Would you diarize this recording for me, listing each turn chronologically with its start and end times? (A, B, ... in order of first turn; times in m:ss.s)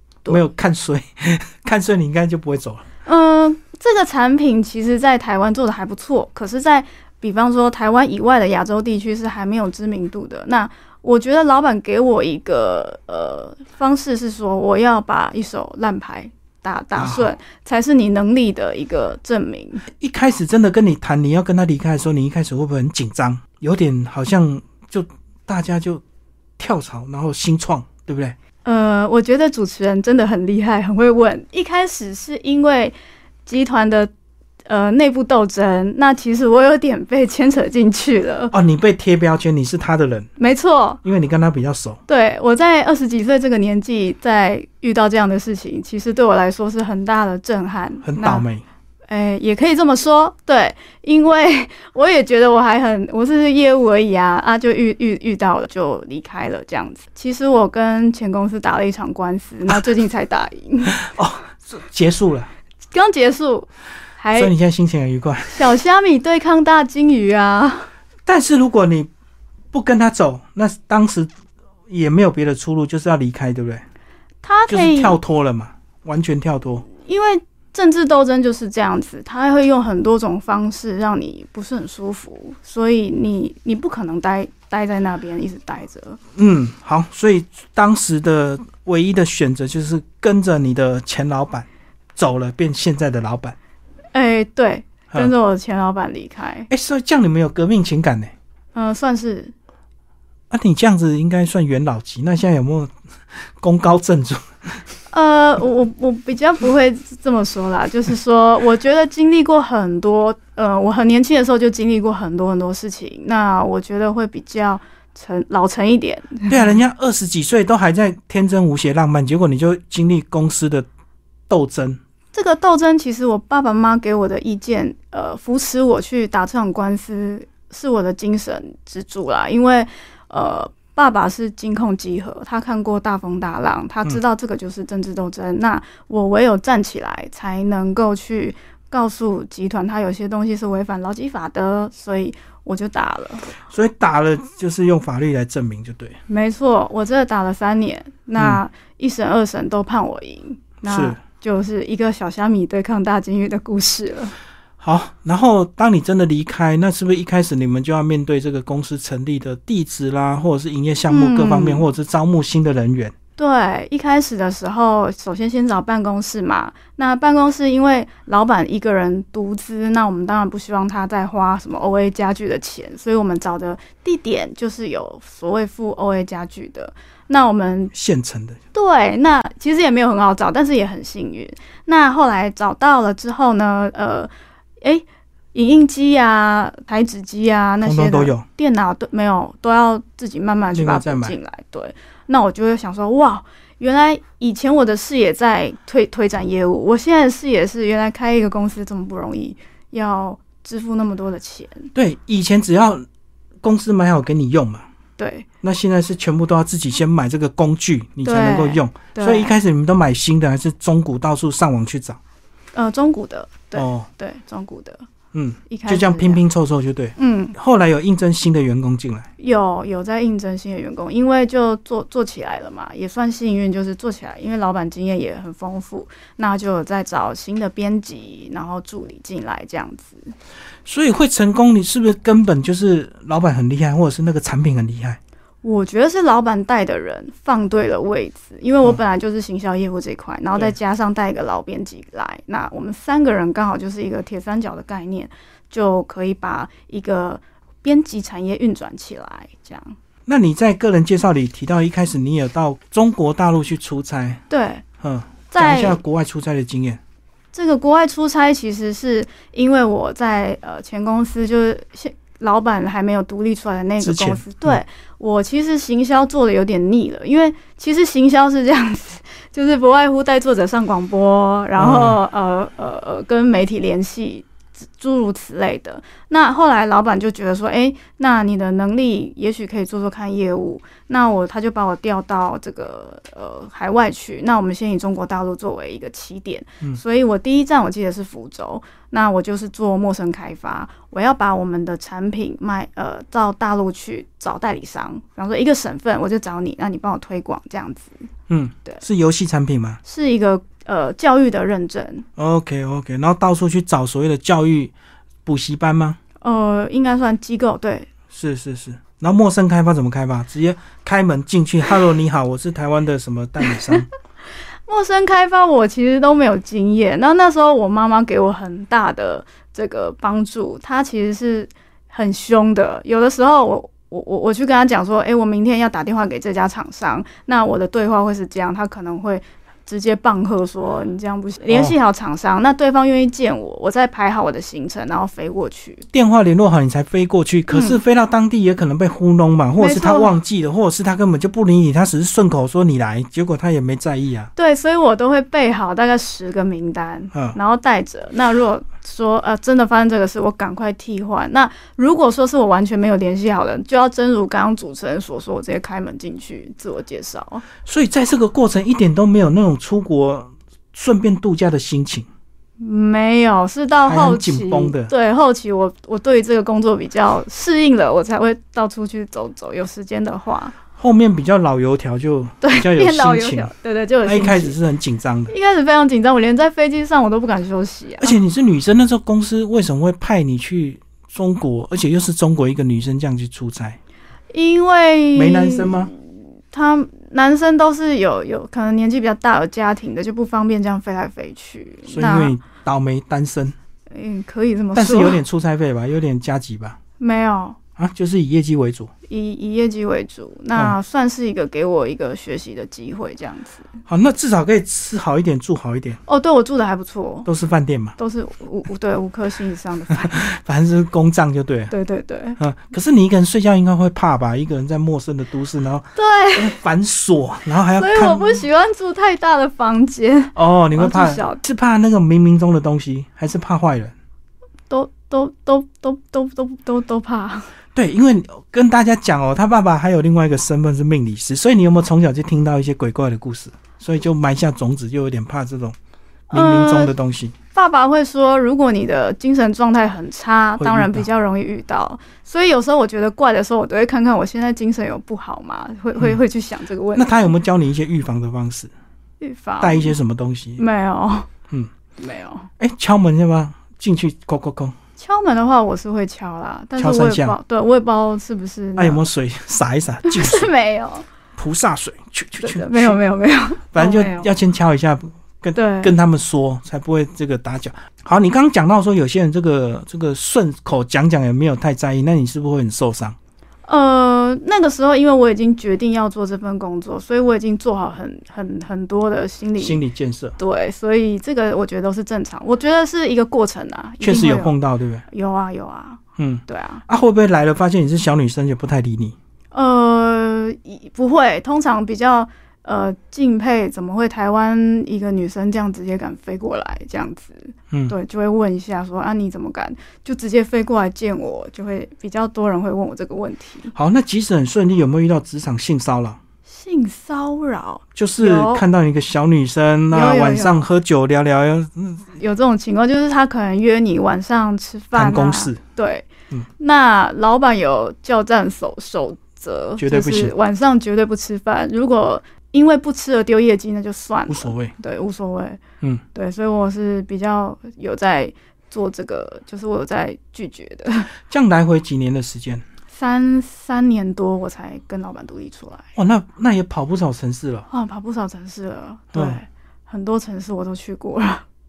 0:00.3-0:02.8 A
0:03.0-0:19.8 B
0:17.0-0:17.3 A
0:20.0-0:26.0 A
0:26.6-0:28.3 A
0:28.6-0:34.1 B
0:34.6-0:38.5 B
0:38.5-0:40.3 A
0:40.4-0:41.0 B
0:41.0-0:42.0 A
0:42.1-0:48.4 B
0:48.0-0:48.6 A
0:49.1-1:01.0 B
1:01.0-1:02.5 A
1:02.9-1:04.5 B
1:04.3-1:05.7 A
1:05.5-1:07.9 B
1:08.2-1:09.1 A
1:09.7-1:11.3 A
1:11.9-1:13.8 A
1:14.4-1:15.2 B
1:14.7-1:16.9 A
1:16.9-1:26.2 B
1:26.4-1:33.6 A
1:34.1-1:36.7 B
1:36.7-1:38.3 A
1:38.7-1:39.5 B
1:40.5-1:42.9 A
1:43.6-1:44.8 A
1:45.1-1:56.7 B
1:56.5-2:00.9 A
2:01.5-2:02.0 A
2:02.3-2:23.5 B
2:23.6-2:26.2 A
2:26.3-2:34.3 B
2:30.9-2:31.2 A
2:34.8-2:43.1 A
2:41.1-2:41.8 B
2:43.4-2:57.9 B
2:57.9-2:58.6 A
2:58.7-3:04.3 B
3:04.8-3:21.9 B
3:07.8-3:08.4 A
3:10.7-3:11.4 A
3:21.9-3:23.0 A
3:23.6-3:24.9 A
3:25.2-3:25.5 B
3:25.6-3:32.2 A
3:28.2-3:29.5 B
3:32.7-3:35.0 B
3:33.7-3:34.1 A
3:35.3-3:39.3 A
3:35.7-3:36.4 B
3:37.2-3:37.5 B
3:39.4-3:50.3 B
3:50.8-3:55.2 A
3:55.6-4:10.0 B
4:10.2-4:14.4 A
4:14.5-4:14.8 B
4:15.0-4:17.0 A
4:15.5-4:16.0 B
4:17.5-4:58.2 B
4:24.0-4:24.8 A
4:31.8-4:32.2 A
4:58.5-5:00.0 A
5:00.0-5:02.2 B
5:02.4-5:04.9 A
5:05.4-5:06.2 A
5:06.4-5:08.1 B
5:08.3-5:14.1 A
5:14.9-5:36.0 B
5:36.1-5:44.5 A
5:37.7-5:38.0 B
5:39.8-5:40.3 B
5:44.6-5:57.6 B
5:57.8-6:02.3 A
6:02.8-6:10.8 B
6:04.0-6:05.1 A
6:11.0-6:13.7 A
6:12.6-6:14.8 B
6:14.2-6:15.5 A
6:15.5-6:18.4 B
6:18.2-6:24.0 A
6:24.5-6:32.5 B
6:25.3-6:26.1 A
6:32.1-6:33.7 A
6:34.1-6:35.4 B
6:34.9-6:37.0 A
6:37.2-6:37.8 B
6:38.0-6:39.1 A
6:39.3-6:43.9 B
6:44.1-6:46.2 A
6:46.2-6:47.5 B
6:47.4-6:48.2 A
6:48.2-6:50.5 B
6:50.1-6:51.9 A
6:51.9-6:52.6 B
6:52.6-6:58.6 A
6:56.1-6:56.8 B
6:57.9-7:01.6 B
7:00.5-7:04.1 A
7:04.9-7:07.7 B
7:07.9-7:16.0 A
7:16.5-7:17.5 A
7:16.5-7:17.1 B
7:17.7-7:27.5 B
7:20.8-7:21.3 A
7:27.1-7:28.9 A
7:29.4-7:30.2 B
7:29.8-7:30.8 A
7:30.8-7:31.5 B
7:32.2-7:32.7 B
7:32.8-7:35.0 A
7:35.2-7:39.2 B
7:37.0-7:37.6 A
7:39.0-7:40.7 A
7:40.2-7:41.3 B
7:41.6-7:43.2 A
7:42.6-7:44.5 B
7:43.9-7:53.4 A
7:45.7-7:46.1 B
7:53.8-8:00.0 B
7:59.8-8:00.6 A
8:00.6-8:04.7 B
8:04.2-8:05.2 A
8:05.3-8:07.0 B
8:06.4-8:09.4 A
8:09.7-8:23.9 B
8:17.9-8:18.2 A
8:23.9-8:26.4 A
8:26.7-8:28.8 B
8:28.1-8:32.3 A
8:30.1-8:30.8 B
8:32.4-8:36.3 B
8:35.1-8:35.8 A
8:36.8-8:45.8 B
8:40.0-8:40.5 A
8:44.5-8:44.9 A
8:46.3-8:51.3 B
8:51.5-8:52.8 A
8:53.1-8:56.1 B
8:56.2-8:57.9 A
8:57.9-9:01.6 B
8:59.3-8:59.6 A